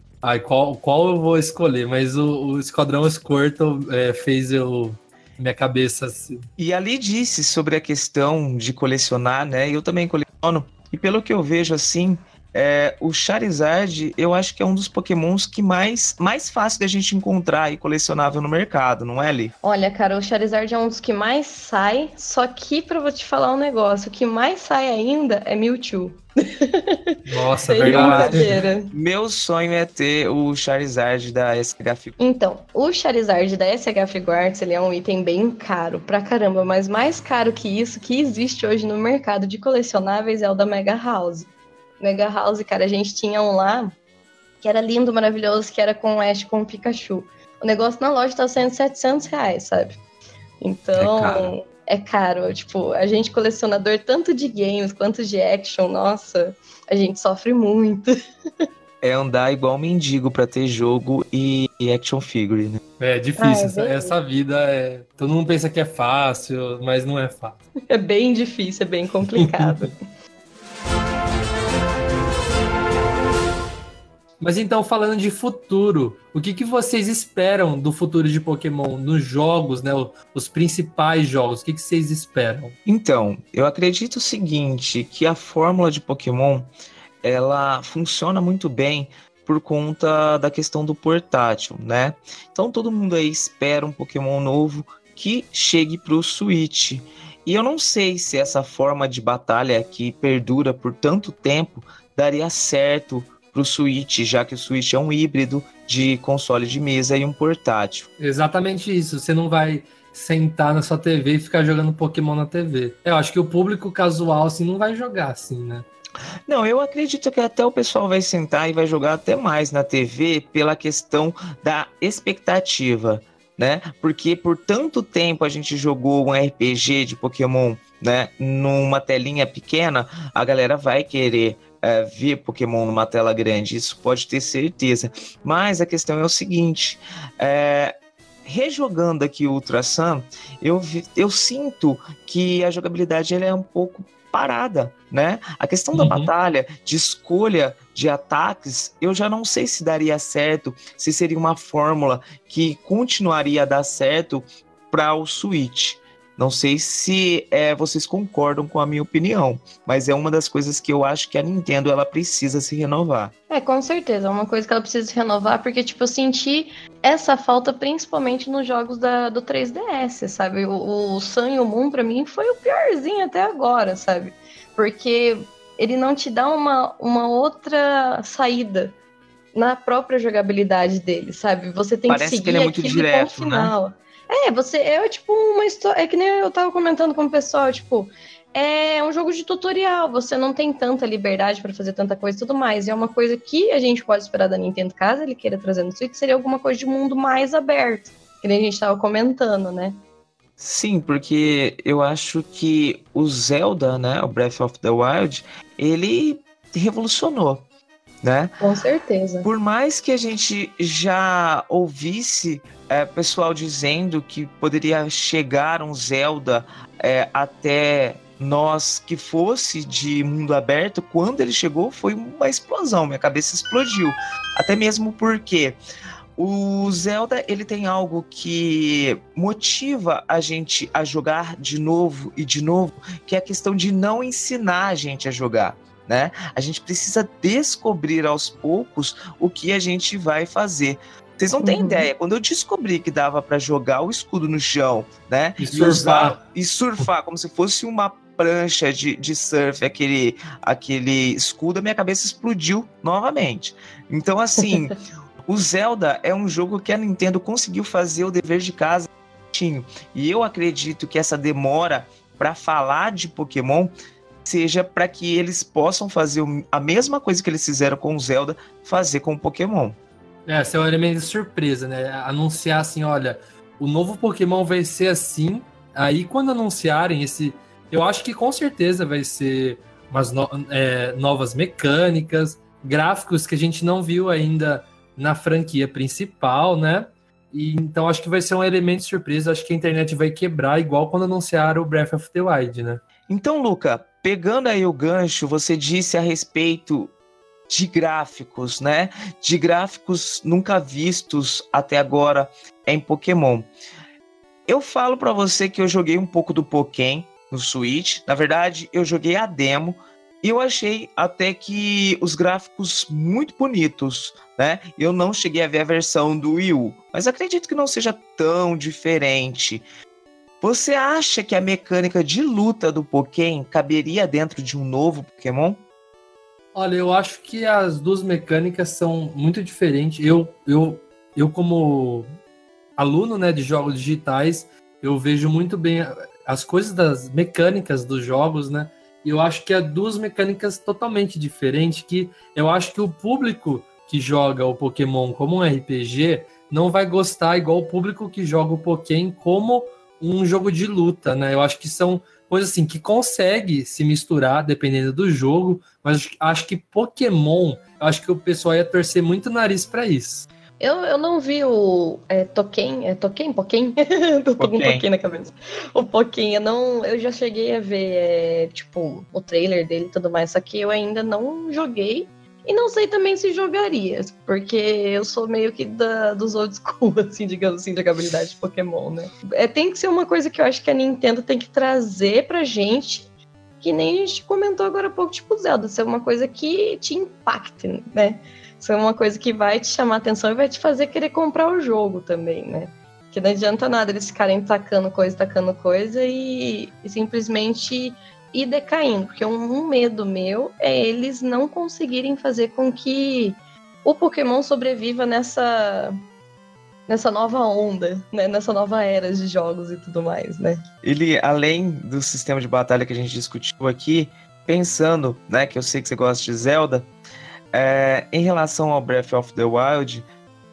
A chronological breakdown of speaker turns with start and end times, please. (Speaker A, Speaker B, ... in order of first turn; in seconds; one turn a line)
Speaker A: 0.2-6.5
Speaker B: 6.6-19.5
Speaker C: 19.6-28.9
Speaker A: 27.3-28.5
Speaker B: 27.8-32.2
Speaker C: 32.2-41.5
Speaker C: 42.0-43.9
Speaker C: 44.6-50.0
Speaker C: 50.6-58.1
Speaker B: 50.9-51.5
Speaker B: 59.0-62.8
Speaker A: 63.0-67.6
Speaker C: 63.4-64.2
Speaker C: 67.9-70.0
Speaker A: 69.4-69.9
Speaker A: 74.4-82.8
Speaker B: 82.8-86.7
Speaker B: 87.2-108.1
Speaker A: 108.2-115.8
Speaker B: 116.5-163.3
Speaker A: 145.9-146.3
Speaker C: 163.5-178.9
Speaker C: 179.5-200.0
Speaker B: 182.1-183.7
Speaker B: 200.6-207.6
Speaker B: 208.2-208.6
Speaker C: 208.6-209.5
Speaker B: 209.4-225.8
Speaker B: 226.3-263.9
Speaker C: 241.6-242.1
Speaker A: 245.6-246.4
Speaker B: 264.4-270.0
Speaker A: 270.5-293.0
Speaker B: 293.3-297.1
Speaker B: 297.7-303.7
Speaker B: 304.7-319.8
Speaker B: 320.6-325.8
Speaker A: 326.7-332.3
Speaker A: 333.0-360.4
Speaker C: 360.8-383.3
Speaker B: 364.6-365.0
Speaker C: 383.8-406.1
Speaker C: 407.1-410.8
Speaker B: 411.0-417.1
Speaker B: 417.7-420.2